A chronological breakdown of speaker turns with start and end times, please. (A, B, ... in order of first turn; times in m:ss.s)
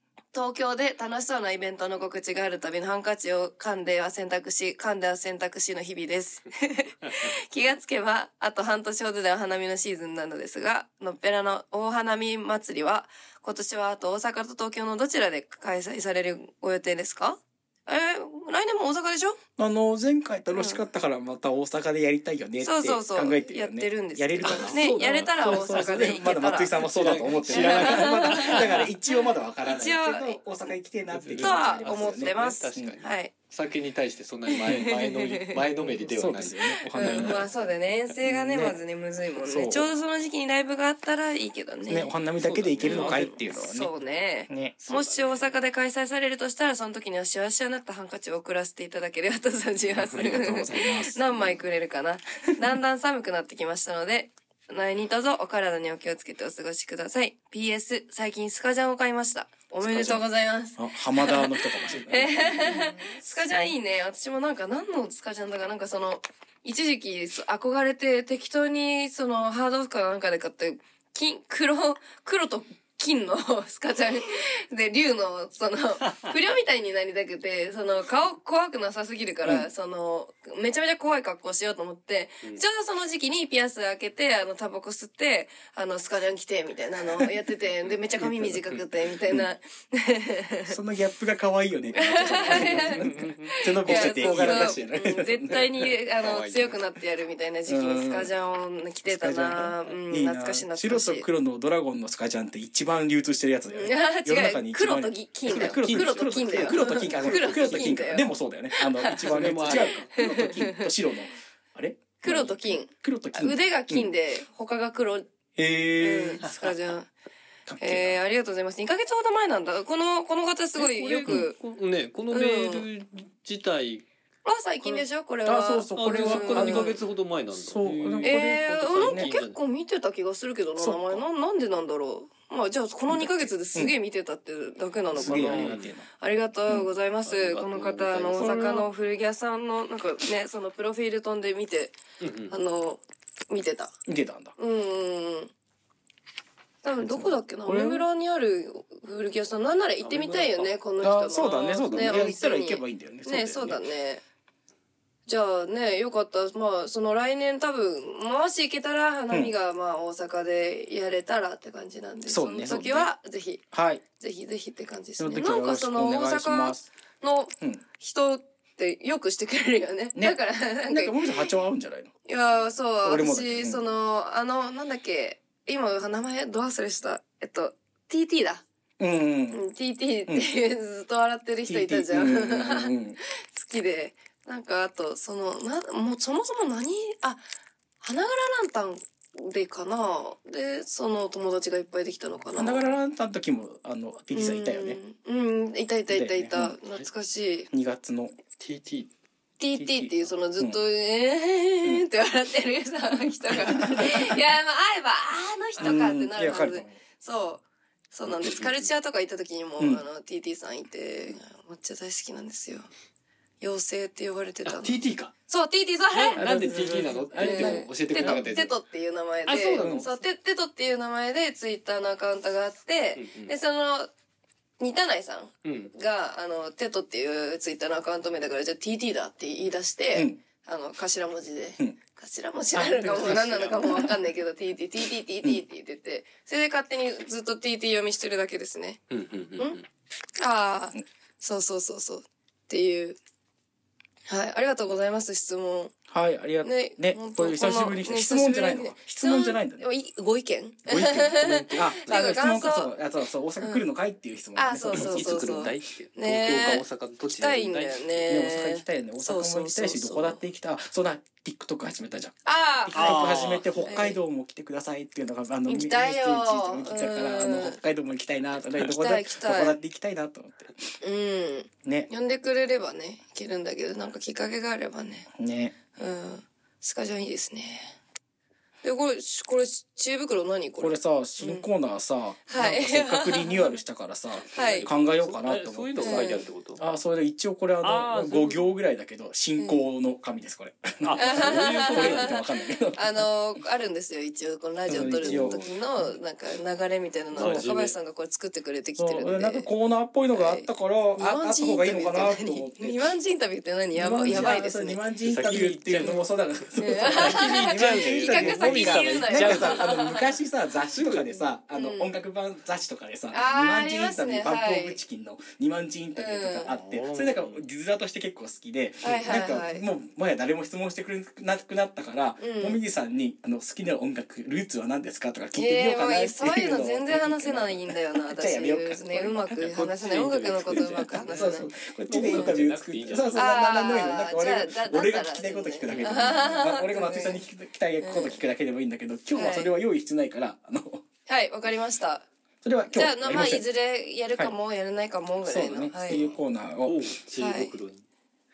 0:00.3-0:19.4 A
0:19.6-0:33.0 B
0:20.5-0:20.8 A
0:22.6-0:26.9 A
0:24.4-0:28.8 C
0:27.4-0:28.9 A
0:29.6-0:30.4 A
0:31.1-0:37.6 C
0:31.4-0:33.3 A
0:34.5-0:35.6 A
0:35.8-0:37.5 B
0:37.0-0:42.1 A
0:38.2-0:38.8 B
0:39.4-0:39.9 B
0:41.9-0:43.9 B
0:42.4-0:43.3 C
0:42.8-1:30.8 A
0:44.5-0:44.8 B
0:44.9-0:45.5 C
0:50.0-0:51.6 B
0:59.8-1:00.2 B
1:00.8-1:03.7 B
1:02.2-1:02.7 C
1:27.0-1:27.5 B
1:27.8-1:28.1 C
1:28.2-1:28.7 B
1:30.7-1:35.7 B
1:31.9-1:41.3 A
1:32.4-1:34.9 C
1:35.5-1:36.8 C
1:37.7-1:38.3 B
1:39.0-1:54.1 B
1:43.7-1:50.9 A
1:45.4-1:47.7 C
1:49.2-1:50.1 C
1:52.2-1:55.3 A
1:55.6-1:56.5 B
1:56.0-1:57.1 A
1:57.7-1:58.2 B
1:57.8-2:01.6 A
2:00.7-2:04.0 C
2:02.3-2:02.8 A
2:04.4-2:07.0 A
2:05.4-2:06.9 B
2:05.9-2:09.6 C
2:07.5-2:09.3 B
2:08.2-2:23.9 A
2:10.8-2:11.2 B
2:13.1-2:13.9 B
2:15.1-2:16.1 B
2:15.2-2:15.9 C
2:16.7-2:16.9 B
2:17.2-2:18.9 C
2:22.2-2:22.6 C
2:24.0-2:24.5 B
2:24.6-2:25.5 A
2:26.8-2:34.2 A
2:27.0-2:28.1 B
2:30.0-2:30.8 C
2:31.0-2:33.8 B
2:35.2-2:43.6 A
2:42.3-2:43.1 B
2:43.7-2:44.0 B
2:44.2-2:51.6 A
2:45.2-2:46.9 B
2:50.1-2:52.1 B
2:52.2-2:58.6 A
2:53.0-2:53.8 B
2:59.0-2:59.6 B
2:59.5-3:07.4 A
3:01.6-3:03.2 B
3:08.0-3:12.9 A
3:12.5-3:15.0 B
3:14.3-3:17.7 A
3:16.1-3:16.8 B
3:17.7-3:18.3 B
3:18.6-3:19.1 C
3:19.6-3:32.9 A
3:19.8-3:20.8 B
3:23.5-3:24.3 B
3:25.8-3:27.0 B
3:28.3-3:28.8 C
3:29.8-3:30.0 B
3:33.6-3:36.8 A
3:34.6-3:35.3 C
3:36.1-3:38.8 C
3:36.4-3:38.5 B
3:37.3-3:44.1 A
3:39.5-3:40.1 C
3:39.5-3:40.1 B
3:43.2-3:43.5 C
3:44.8-3:59.0 A
3:45.6-3:45.9 C
3:50.1-3:50.4 B
3:52.7-3:54.1 B
3:53.0-3:54.0 C
3:59.1-3:59.8 C
4:00.4-4:03.2 A
4:04.3-4:05.9 A
4:06.1-4:09.8 B
4:06.6-4:13.0 A
4:10.8-4:15.7 B
4:13.6-4:13.8 A
4:14.5-4:20.4 A
4:14.9-4:18.2 C
4:18.3-4:30.8 B
4:22.4-4:24.2 A
4:22.9-4:23.9 C
4:25.7-4:27.8 A
4:28.8-4:29.8 A
4:31.0-4:35.3 A
4:31.8-4:32.1 B
4:35.3-4:35.7 B
4:35.9-4:38.0 A
4:38.8-4:41.7 A
4:40.8-4:53.2 B
4:42.5-4:43.8 A
4:44.5-4:46.9 C
4:44.5-4:44.9 A
4:46.0-4:46.4 A
4:47.8-4:48.7 C
4:49.6-4:49.9 A
4:51.0-4:52.3 C
4:51.1-4:59.7 A
4:54.9-4:56.1 B
4:54.9-4:55.8 C
4:57.3-4:57.9 C
4:57.3-4:57.7 B
4:59.0-5:03.0 B
5:00.3-5:05.0 A
5:03.9-5:29.9 B
5:05.2-5:06.3 C
5:06.8-5:10.4 A
5:07.1-5:09.9 C
5:10.8-5:11.5 C
5:11.7-5:12.2 A
5:13.3-5:15.0 A
5:16.2-5:16.7 A
5:16.7-5:17.6 C
5:19.0-5:19.8 A
5:22.4-5:22.8 A
5:25.5-5:31.7 A
5:29.7-5:33.5 C
5:30.7-5:41.0 B
5:33.3-5:37.4 A
5:35.8-5:36.4 C
5:38.0-5:38.4 A
5:39.3-5:39.7 A
5:41.2-5:42.3 A
5:42.6-5:43.6 B
5:42.9-5:46.2 A
5:45.4-5:47.0 B
5:46.1-5:48.0 C
5:47.4-5:47.7 A